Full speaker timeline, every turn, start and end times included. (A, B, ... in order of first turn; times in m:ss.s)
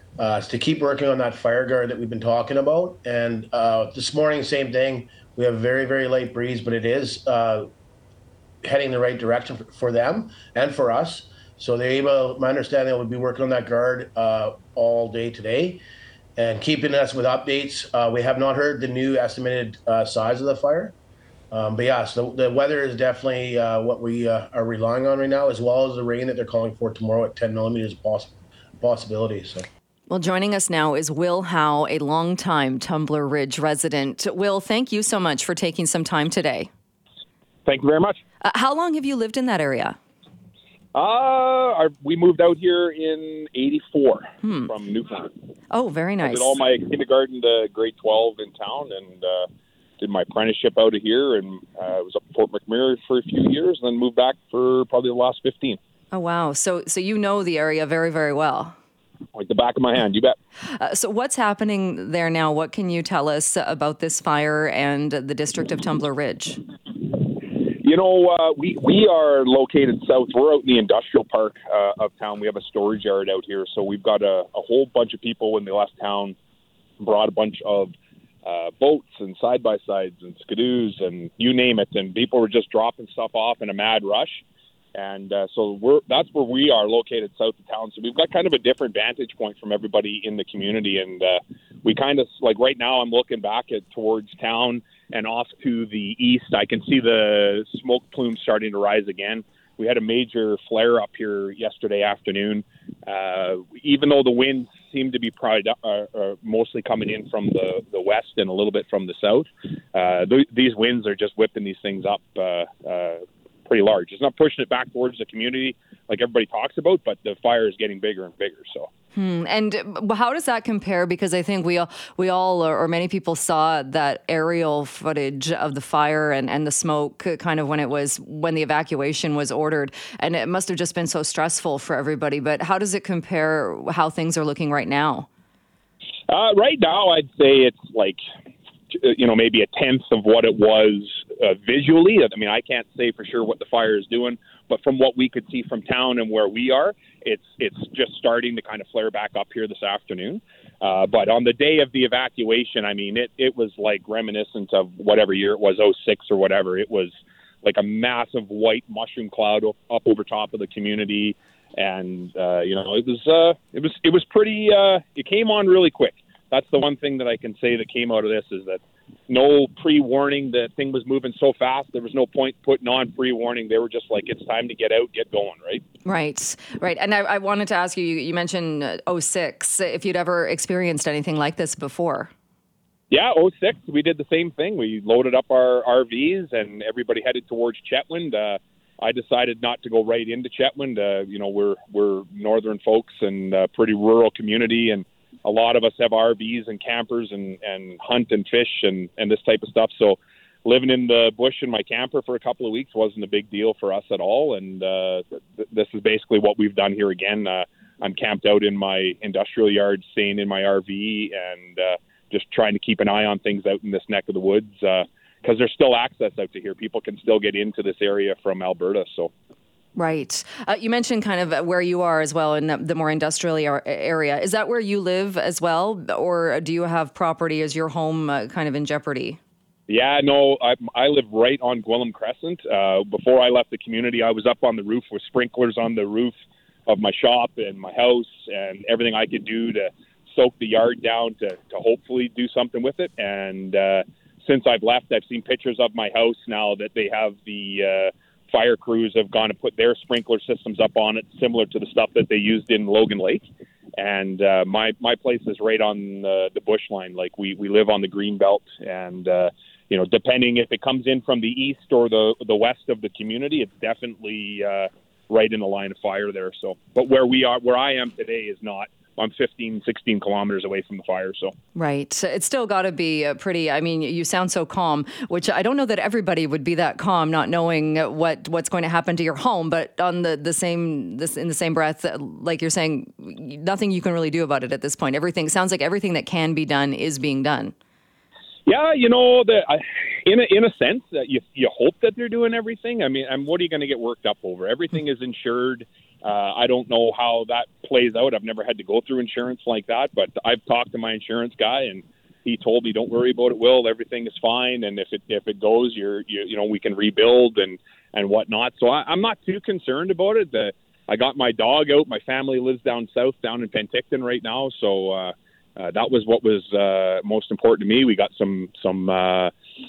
0:00.2-0:07.7 A
0:08.6-0:15.8 A
0:16.4-0:20.9 A
0:21.5-0:29.7 A
0:30.1-0:36.7 B
0:37.7-0:38.2 C
0:38.4-0:40.0 B
0:41.0-0:45.3 C
0:44.4-0:44.7 B
0:45.7-0:46.6 B
0:46.2-0:49.5 C
0:50.0-0:55.8 C
0:56.1-0:58.8 B
0:59.4-1:00.4 C
1:00.7-1:06.6 B
1:07.6-1:16.4 C
1:17.0-1:17.9 C
1:18.4-1:24.4 C
1:24.9-1:58.9 C
1:59.2-2:15.3 B
2:16.3-2:18.2 C
2:18.9-2:55.8 C
2:56.0-3:02.3 B
3:03.1-3:39.3 C
3:40.0-3:49.4 B
3:49.9-3:56.4 C
3:56.9-4:13.4 C
4:14.0-4:31.5 C
4:31.8-4:47.7 B
4:48.7-5:19.5 C